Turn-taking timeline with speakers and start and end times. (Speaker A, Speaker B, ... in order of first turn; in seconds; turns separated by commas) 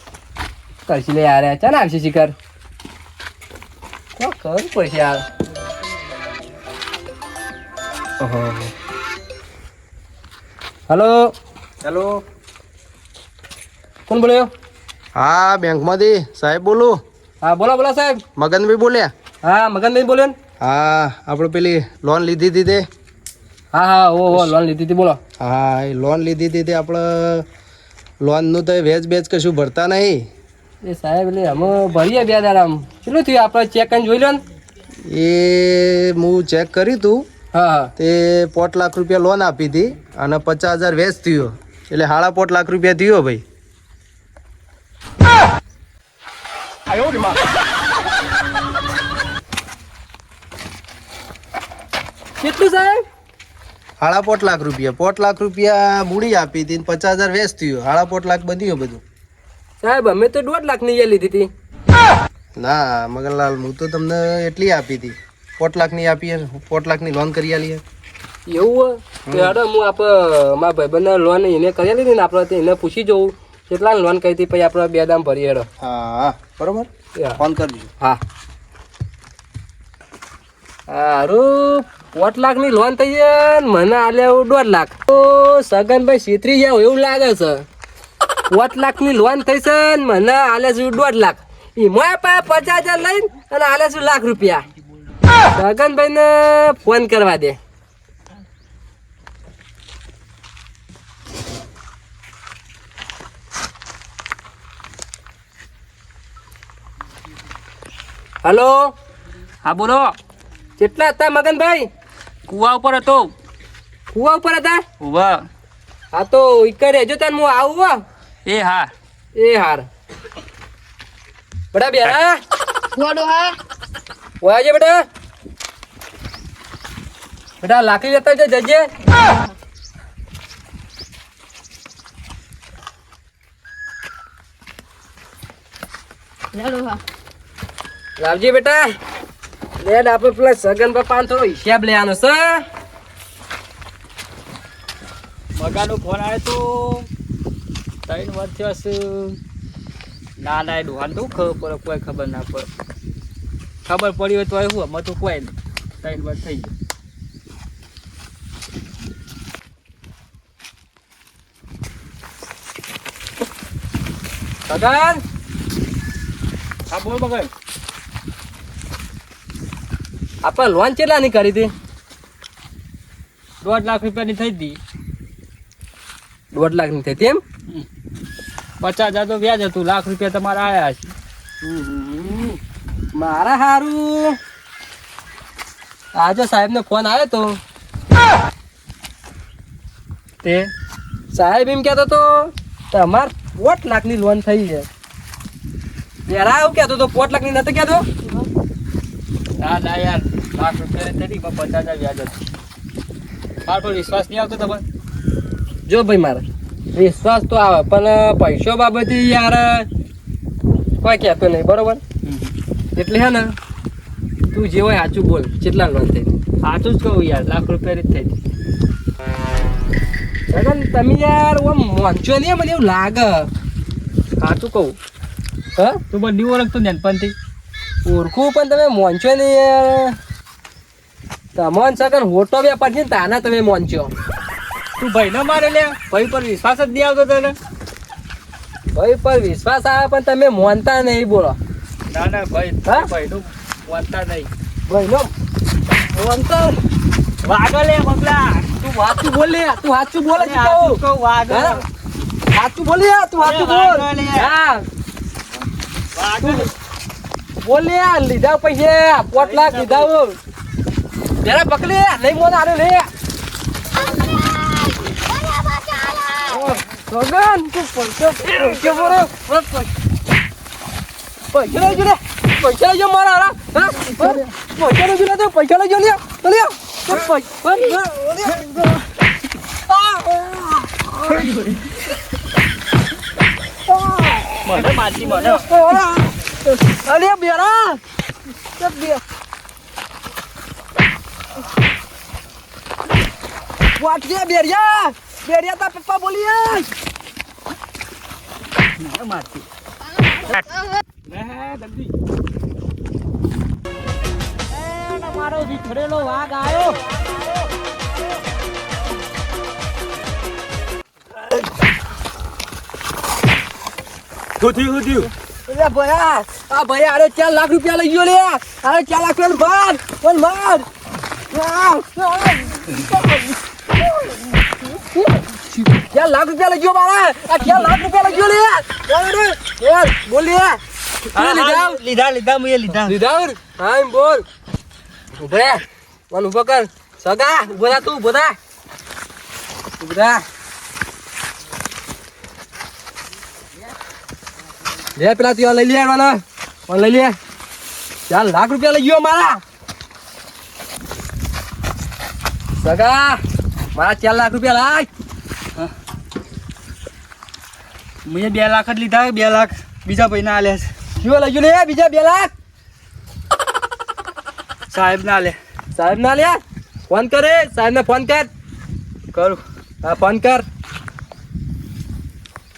Speaker A: 0.9-2.4, Speaker A: 4.2-5.2, Speaker A: 8.2-8.7, Speaker A: 10.9-11.3, Speaker B: 11.8-12.2, Speaker A: 14.1-14.5, Speaker B: 15.2-17.0, Speaker A: 17.4-18.2, Speaker B: 18.4-19.1, Speaker A: 19.4-20.4, Speaker B: 20.6-22.9, Speaker A: 23.7-25.2, Speaker B: 25.4-27.4, Speaker B: 28.2-30.2, Speaker A: 30.8-34.4, Speaker B: 35.1-37.3, Speaker A: 37.5-37.9, Speaker B: 38.0-43.4, Speaker A: 46.9-47.3, Speaker A: 52.4-53.0, Speaker B: 54.0-59.0, Speaker A: 59.8-61.5, Speaker B: 62.6-67.8, Speaker A: 68.5-75.7, Speaker B: 69.3-69.6, Speaker B: 75.8-77.9, Speaker A: 80.9-87.7, Speaker A: 88.5-94.6, Speaker A: 95.5-97.6, Speaker A: 108.4-108.9, Speaker C: 109.7-110.2, Speaker A: 110.8-111.9, Speaker C: 112.5-113.3, Speaker A: 114.1-114.8, Speaker C: 115.0-115.5, Speaker A: 116.1-118.0, Speaker C: 118.5-118.9, Speaker A: 119.4-119.9, Speaker A: 121.7-122.4, Speaker D: 123.0-123.6, Speaker A: 124.4-125.0, Speaker A: 127.6-128.9, Speaker D: 129.1-129.5, Speaker D: 136.5-137.0, Speaker A: 138.2-138.9, Speaker A: 139.8-142.6, Speaker C: 145.6-147.1, Speaker C: 148.1-149.4, Speaker C: 150.4-152.7, Speaker C: 153.9-156.7, Speaker A: 164.7-165.2, Speaker C: 166.9-167.5, Speaker A: 170.4-171.7, Speaker C: 173.6-174.8, Speaker A: 176.5-177.4, Speaker C: 178.8-181.1, Speaker A: 181.6-182.6, Speaker A: 183.2-184.4, Speaker A: 186.2-187.6, Speaker C: 190.4-190.7, Speaker A: 191.3-194.9, Speaker A: 196.3-198.1, Speaker C: 199.6-202.4, Speaker C: 203.7-204.8, Speaker A: 205.9-209.9, Speaker A: 211.0-212.0, Speaker C: 212.2-212.5, Speaker A: 213.0-213.5, Speaker A: 214.5-216.3, Speaker C: 216.6-218.3, Speaker A: 220.5-223.5, Speaker C: 224.4-225.0, Speaker C: 226.1-227.3, Speaker A: 228.1-230.2, Speaker A: 231.6-234.1, Speaker C: 235.0-237.6, Speaker A: 238.9-241.6, Speaker C: 242.1-244.5, Speaker A: 244.9-245.3, Speaker C: 246.1-246.7, Speaker C: 247.4-248.7, Speaker A: 248.8-251.8, Speaker C: 250.4-251.8, Speaker A: 252.5-254.8, Speaker C: 253.4-254.5, Speaker C: 256.2-256.7, Speaker A: 256.4-256.7, Speaker A: 257.6-260.4, Speaker C: 259.4-260.1, Speaker A: 261.4-263.1, Speaker D: 265.3-266.3, Speaker A: 266.4-269.9, Speaker A: 271.5-278.8, Speaker A: 279.9-281.6, Speaker A: 283.9-288.0, Speaker C: 284.6-285.6, Speaker A: 288.8-289.2, Speaker A: 294.0-296.9, Speaker C: 299.0-299.6, Speaker C: 301.3-302.1, Speaker C: 304.9-307.0, Speaker C: 314.6-315.3, Speaker A: 315.7-320.9, Speaker A: 321.5-330.8, Speaker A: 331.3-332.0, Speaker C: 331.4-333.1, Speaker A: 332.9-334.4, Speaker A: 335.4-338.6, Speaker A: 340.0-340.4, Speaker A: 345.2-347.4, Speaker A: 348.3-349.6, Speaker A: 352.8-353.4, Speaker A: 353.9-355.1, Speaker C: 358.2-360.9, Speaker A: 361.2-362.5, Speaker C: 364.9-365.6, Speaker A: 365.9-368.5, Speaker C: 369.3-369.6, Speaker A: 370.0-370.6